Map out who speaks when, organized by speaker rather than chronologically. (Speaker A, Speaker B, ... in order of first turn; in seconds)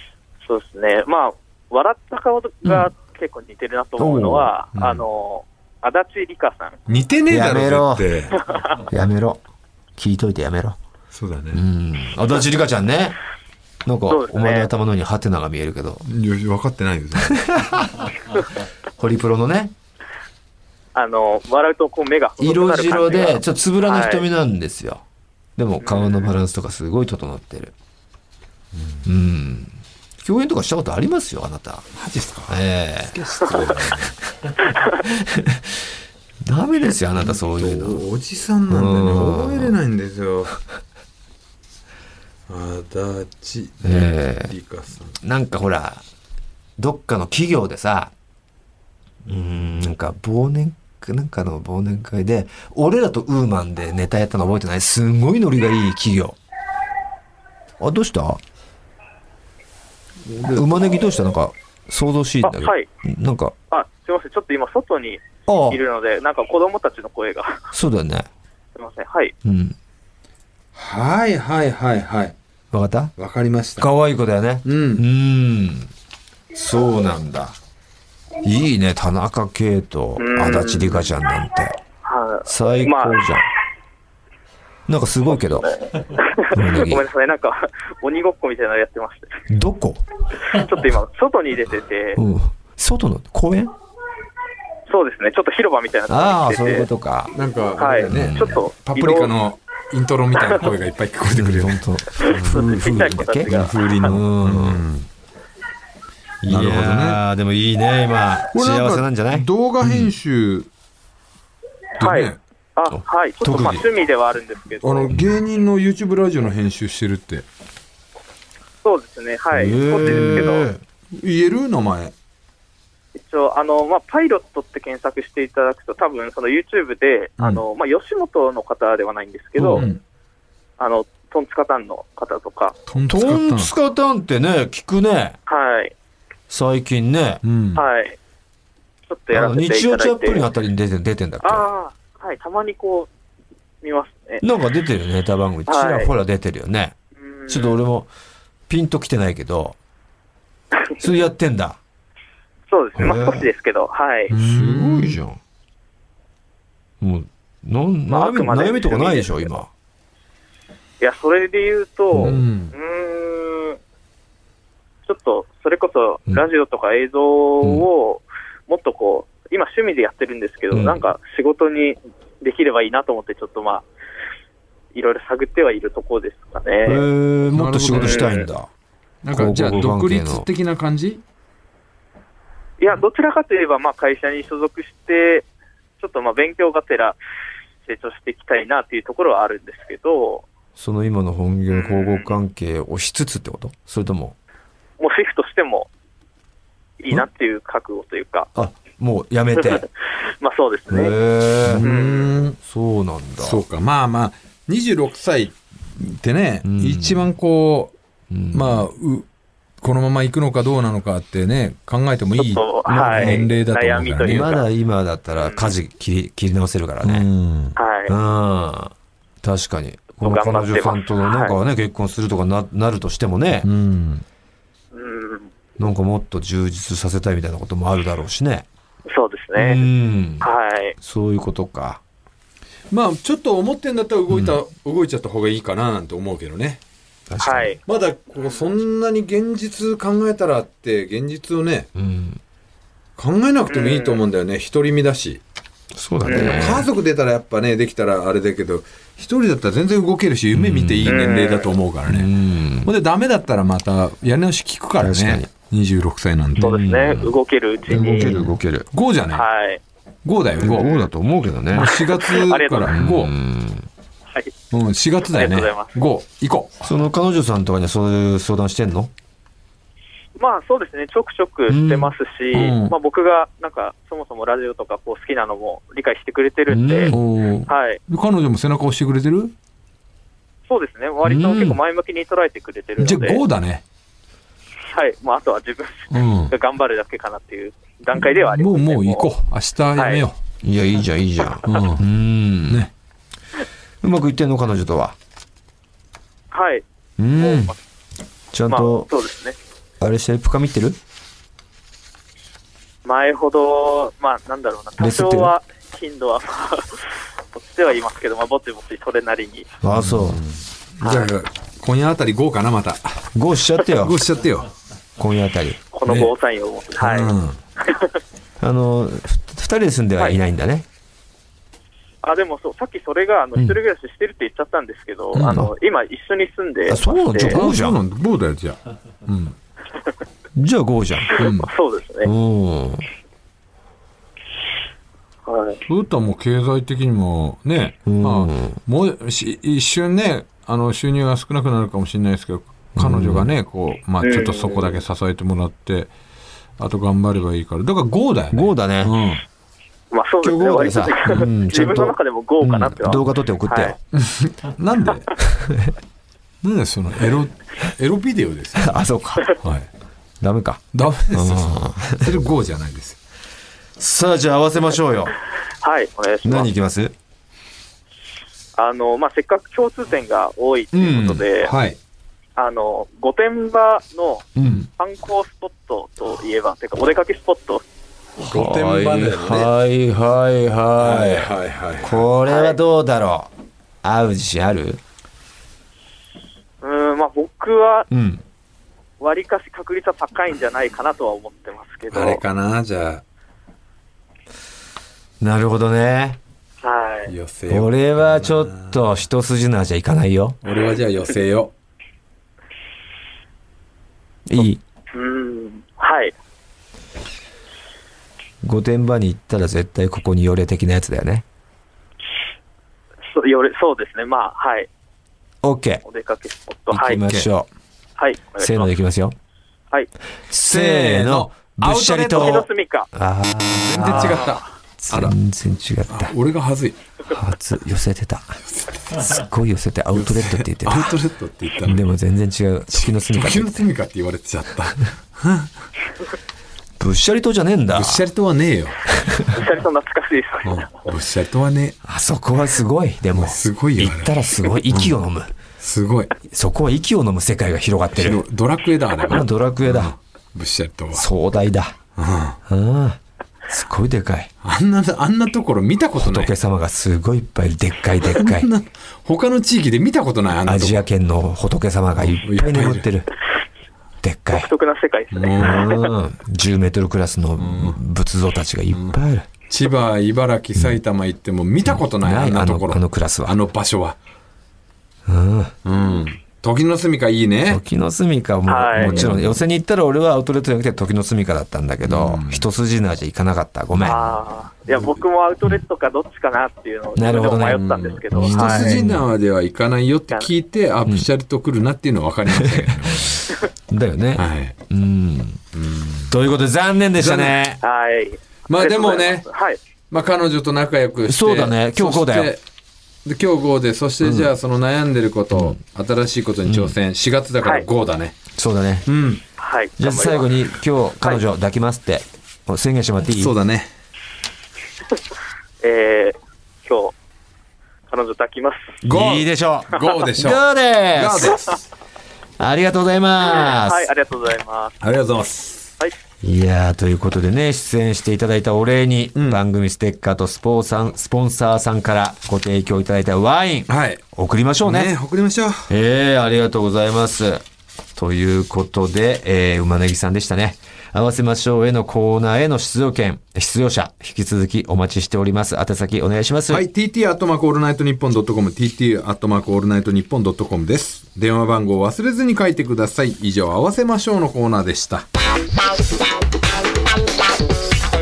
Speaker A: 0.4-6.8, 8.5-8.8, 14.1-14.7, 20.9-24.2, 25.8-26.3, 62.4-62.9, 63.7-67.7, 68.8-69.3, 80.2-81.1, 82.0-83.2, 85.3-89.4, 90.4-92.2, 94.9-96.9, 97.8-99.3, 102.2-104.1, 112.0-115.1, 118.8-120.7, 123.2-129.9, 130.8-132.8, 135.5-135.9, 137.7-138.2, 139.1-140.4, 141.4-143.1, 143.8-144.4, 145.7-146.1, 147.2-147.8, 152.7-154.3, 158.1-159.5, 161.0-163.8, 165.1-173.8, 174.9-177.0, 177.9-178.4, 182.8-185.4, 186.0-187.2, 187.8-190.4, 191.7-192.3, 195.0-195.9, 197.0-198.5, 199.6-201.1, 201.8-202.4, 212.4-214.6, 215.3-215.7, 217.8-218.1, 220.2-221.5, 224.9-225.5, 229.1-229.8, 230.4-230.9, 237.4-237.8, 243.7-244.2, 246.2-246.7, 251.1-251.7, 256.6-258.4, 259.3-259.8, 260.6-261.1, 261.8-263.0, 265.3-265.9, 270.4-277.1, 277.7-278.0, 280.7-283.4, 284.9-289.3, 289.9-290.2, 296.5-296.8, 297.4-297.8, 298.7-299.6, 303.0-307.0, 307.6-309.7, 311.0-311.3, 315.9-318.1, 322.2-327.6, 331.3-332.3, 335.4-335.8, 344.2-344.9, 350.1-353.9, 365.8-366.7, 368.8-371.7, 372.6-377.8, 382.5-382.8, 386.8-388.1, 389.2-392.4, 396.8-397.3, 405.1-406.3, 413.3-414.9, 416.1-417.2, 418.2-418.9, 422.3-423.1, 439.5-441.0, 464.5-466.1, 478.7-479.3, 484.0-488.9, 497.8-499.8, 509.6-510.6, 515.8-517.1, 518.1-519.0, 523.4-524.9
Speaker B: 2.6-2.9, 4.0-4.5, 7.3-8.1, 8.9-9.4, 10.0-10.8, 11.5-13.2, 13.8-16.0, 17.3-18.1, 19.0-19.7, 22.4-25.0, 25.6-27.7, 29.0-31.9, 32.5-33.1, 34.5-35.8, 36.4-38.0, 38.7-39.7, 43.8-44.5, 45.2-46.0, 46.8-48.1, 49.2-56.4, 57.8-58.4, 60.5-63.5, 65.5-65.8, 67.7-68.3, 69.4-69.8, 72.7-73.1, 73.8-75.9, 76.5-77.6, 78.4-81.8, 82.5-83.5, 84.9-85.7, 86.5-87.1, 89.5-90.0, 92.2-93.7, 96.1-97.3, 98.1-98.6, 101.3-104.8, 106.4-110.1, 112.9-113.8, 119.5-120.8, 129.6-129.9, 133.1-135.4, 136.5-137.4, 139.3-141.6, 144.4-146.9, 147.5-148.1, 148.7-149.8, 151.0-151.8, 153.0-153.5, 154.3-155.4, 157.0-159.7, 162.1-162.4, 170.7-171.0, 176.8-178.7, 179.3-180.5, 190.8-194.3, 198.5-199.8, 200.9-201.8, 202.6-203.6, 206.6-207.3, 208.3-208.9, 212.9-213.4, 214.2-217.3, 218.1-223.7, 225.8-228.7, 229.6-232.0, 234.3-234.6, 237.3-237.7, 241.9-242.4, 245.9-246.9, 250.5-251.2, 252.1-252.9, 255.0-255.5, 256.6-257.3, 257.9-258.9, 260.6-261.9, 262.9-263.9, 266.8-269.1, 271.7-272.1, 276.7-277.2, 281.2-281.8, 290.6-292.9, 294.0-295.1, 297.2-297.7, 298.5-299.1, 300.0-301.0, 305.0-305.5, 309.8-310.4, 313.3-314.2, 315.2-315.8, 318.6-320.9, 325.3-325.7, 326.9-328.0, 330.6-331.4, 332.2-333.1, 338.1-338.8, 342.9-343.5, 348.5-349.2, 350.4-354.0, 358.8-359.6, 360.4-362.3, 364.0-365.3, 366.4-367.1, 370.9-371.4, 374.6-374.9, 378.4-383.5, 384.0-385.0, 388.1-388.4, 395.4-396.4, 397.7-400.6, 404.5-404.8, 408.6-411.4, 415.6-416.0, 416.9-417.7, 418.6-419.4, 420.5-426.3, 427.3-428.6, 429.1-431.2, 431.8-433.8, 437.0-438.2, 439.2-439.5, 442.0-445.5, 446.5-448.4, 449.3-450.1, 451.1-452.0, 452.7-454.5, 456.2-458.7, 460.6-463.3, 464.2-464.7, 465.6-469.5, 471.8-473.6, 475.3-475.7, 477.7-484.2, 487.1-489.2, 492.6-492.9, 493.9-495.6, 496.3-497.8, 501.3-502.5, 504.2-504.5, 506.6-506.9, 508.6-509.1, 510.0-513.5, 519.0-521.7, 522.6-524.1, 526.4-535.1, 535.9-537.6, 538.1-546.9
Speaker C: 4.7-5.0, 6.9-8.4, 11.1-11.6, 16.0-17.5, 28.7-29.0, 31.9-34.1, 37.1-40.5, 42.5-45.2, 60.2-61.0, 70.7-72.3, 73.2-73.9, 74.6-75.0, 97.3-105.1, 106.5-107.2, 108.5-110.7, 112.0-112.4, 114.8-117.5, 120.0-122.1, 129.8-130.0, 132.9-133.7, 137.4-137.8, 154.3-155.2, 162.2-162.7, 177.5-178.3, 179.2-181.2, 201.6-202.6, 203.4-207.9, 208.5-209.3, 209.8-214.5, 217.0-217.8, 223.6-224.2, 232.9-236.8, 237.8-241.9, 243.2-245.4, 246.2-252.3, 252.8-256.7, 257.9-259.5, 260.2-260.9, 261.7-263.3, 264.7-266.8, 272.5-272.9, 277.1-279.5, 283.0-283.8, 286.1-286.5, 288.1-290.4, 291.6-292.0, 309.9-313.3, 314.0-314.7, 316.1-316.3, 317.0-317.6, 327.4-329.6, 331.4-331.7, 335.9-346.1, 346.8-349.4, 354.1-355.3, 356.6-359.0, 359.6-359.9, 360.9-363.2, 371.6-372.0, 378.4-379.7, 381.0-382.2, 392.1-393.2, 397.3-399.1, 400.6-401.7, 420.7-422.6, 423.8-425.3, 426.1-427.0, 428.7-429.3, 430.1-432.1, 432.9-435.9, 437.9-439.0, 440.6-441.9, 443.3-445.1, 445.8-446.3, 448.1-451.2, 452.1-452.6, 454.6-456.5, 458.2-461.1, 462.1-463.1, 465.3-465.9, 467.6-468.0, 468.9-469.2, 469.7-474.2, 475.8-477.8, 478.9-479.6, 482.0-482.6, 487.7-493.5, 494.3-494.7, 495.7-496.3, 497.2-497.6, 498.7-499.4, 500.1-502.6, 503.2-508.4, 509.1-509.4, 513.3-513.9, 519.0-521.8, 525.0-525.9, 529.3-529.6, 533.9-534.2, 534.8-535.9, 546.7-555.3